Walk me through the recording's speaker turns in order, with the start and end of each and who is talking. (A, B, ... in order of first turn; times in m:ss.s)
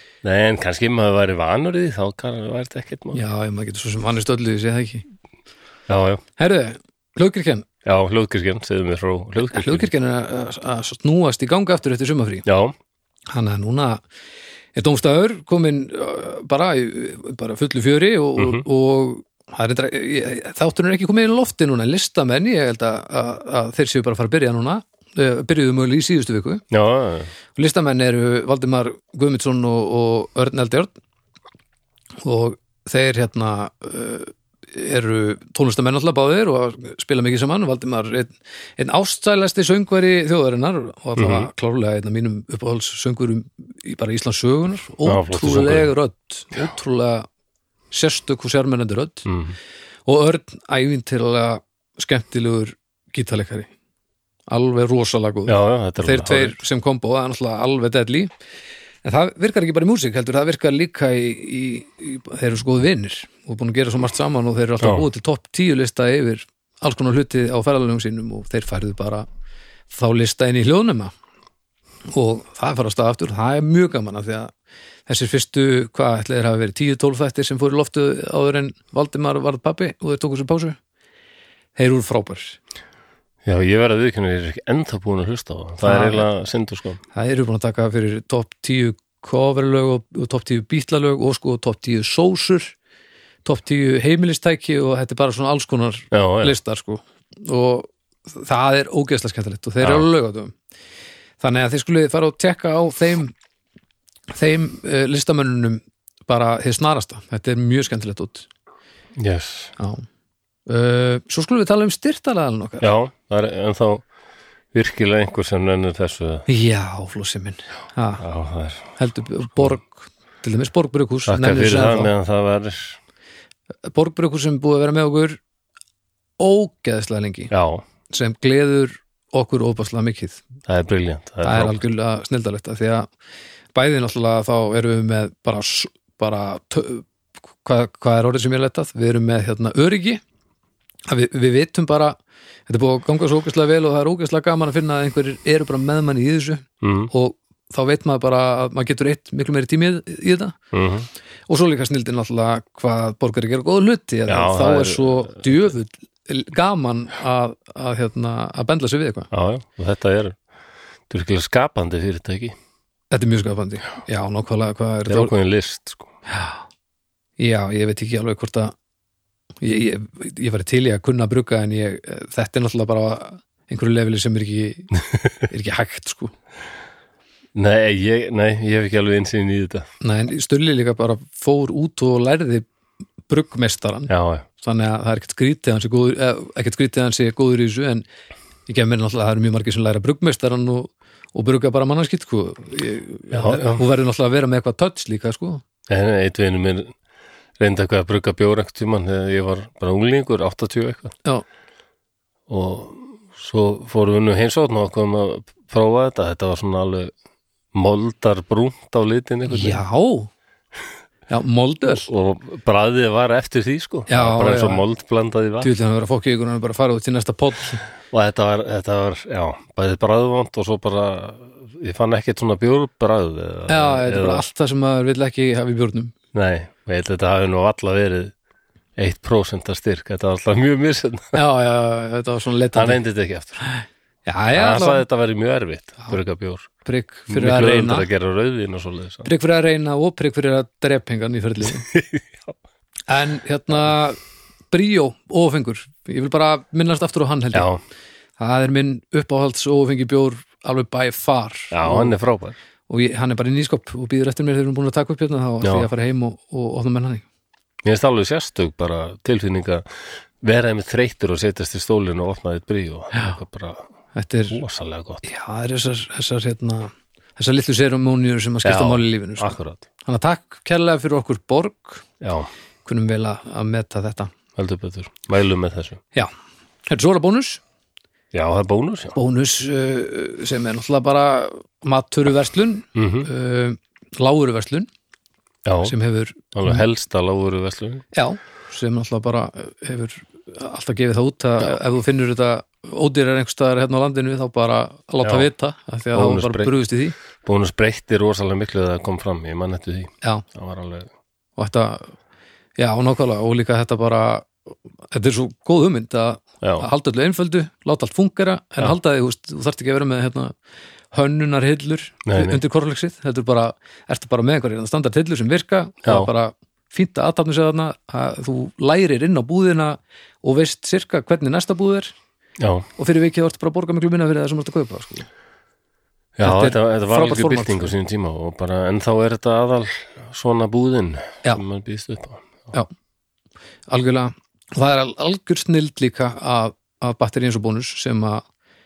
0:00.2-0:03.2 A
0:03.1-0:05.1 B
0:05.9-0:06.2 A
0:06.4-0:07.7 B
0:07.8-0:09.9 A
0:09.5-0:12.4 B
0:12.5-0:12.8 A
0:13.3-0:14.0 B
0:14.8-0:26.6 B
0:18.4-0:18.6 A
0:26.7-0:27.3 A
0:27.6-0:30.9 B
0:32.2-0:47.3 B
0:41.2-0:41.5 A
0:45.0-0:45.9 A
0:47.9-0:49.3 B
0:49.3-0:49.6 A
0:50.1-0:53.7 B
0:54.5-0:58.3 B
0:55.5-0:56.6 A
0:59.0-1:09.3 B
1:04.8-1:05.1 A
1:09.9-1:11.1 B
1:12.1-1:14.5 B
1:15.1-1:20.8 B
1:21.8-1:22.6 B
1:23.4-1:27.0 A
1:25.8-1:26.3 B
1:27.1-1:32.8 B
1:33.4-1:40.6 B
1:36.1-1:36.6 A
1:39.8-1:40.1 A
1:41.4-1:43.3 B
1:44.4-1:48.5 B
1:49.2-1:49.8 A
1:49.8-1:50.0 B
1:50.7-1:52.9 B
1:52.8-1:54.0 A
1:54.7-1:56.5 A
1:56.5-1:58.2 B
1:58.2-1:59.0 A
1:59.0-2:02.1 B
2:01.3-2:03.0 A
2:03.9-2:05.4 B
2:06.4-2:07.5 B
2:07.5-2:07.8 A
2:08.1-2:10.4 B
2:10.6-2:11.8 A
2:11.4-2:13.1 B
2:13.7-2:17.0 B
2:17.6-2:20.2 B
2:21.1-2:22.2 B
2:22.7-2:30.6 B
2:26.8-2:27.1 A
2:30.7-2:31.1 A
2:31.5-2:39.3 B
2:34.3-2:35.6 A
2:39.3-2:40.4 A
2:41.1-2:42.6 A
2:43.1-2:45.3 B
2:45.1-2:46.1 A
2:46.3-2:46.6 B
2:47.4-2:48.7 B
2:49.6-2:56.3 B
2:57.5-2:59.9 A
3:00.0-3:02.6 B
3:03.3-3:08.0 B
3:04.1-3:04.5 A
3:08.7-3:15.6 B
3:13.3-3:13.8 A
3:15.9-3:16.9 A
3:17.6-3:21.1 A
3:22.5-3:27.1 A
3:27.7-3:29.8 A
3:29.5-3:30.3 B
3:31.3-3:32.1 B
3:31.9-3:35.7 A
3:34.1-3:34.8 B
3:35.6-3:37.8 B
3:38.1-3:44.4 A
3:43.7-3:46.1 B
3:46.3-3:48.3 A
3:49.0-3:51.4 A
3:51.3-3:53.0 B
3:52.7-3:53.6 A
3:54.3-3:55.0 B
3:54.5-3:56.7 A
3:56.8-3:58.1 B
3:57.3-3:59.3 A
3:59.2-4:01.9 B
4:01.9-4:02.5 A
4:03.1-4:04.2 B
4:04.7-4:07.7 B
4:07.5-4:07.8 A
4:08.4-4:12.2 B
4:11.7-4:12.6 A
4:12.9-4:17.2 B
4:15.6-4:15.9 A
4:17.8-4:19.9 A
4:20.4-4:23.8 A
4:24.2-4:24.6 B
4:24.5-4:25.2 A
4:25.2-4:32.1 B
4:28.6-4:29.8 A
4:32.2-4:32.5 A
4:32.8-4:34.3 B
4:34.6-4:36.0 A
4:36.9-4:37.6 B
4:38.3-4:39.2 A
4:39.2-4:44.9 B
4:43.0-4:43.3 A
4:45.6-4:46.0 A
4:45.8-4:46.8 B
4:46.5-4:48.1 A
4:48.1-4:57.2 B
4:56.1-4:56.7 A
4:57.4-5:01.1 A
5:01.6-5:02.1 B
5:02.8-5:04.6 B
5:05.1-5:10.5 B
5:06.6-5:06.9 A
5:11.1-5:22.1 B
5:12.3-5:12.6 A
5:16.0-5:16.3 A
5:22.6-5:22.9 A
5:23.0-5:25.3 B
5:26.4-5:32.7 A
5:26.4-5:27.9 B
5:33.9-5:38.4 B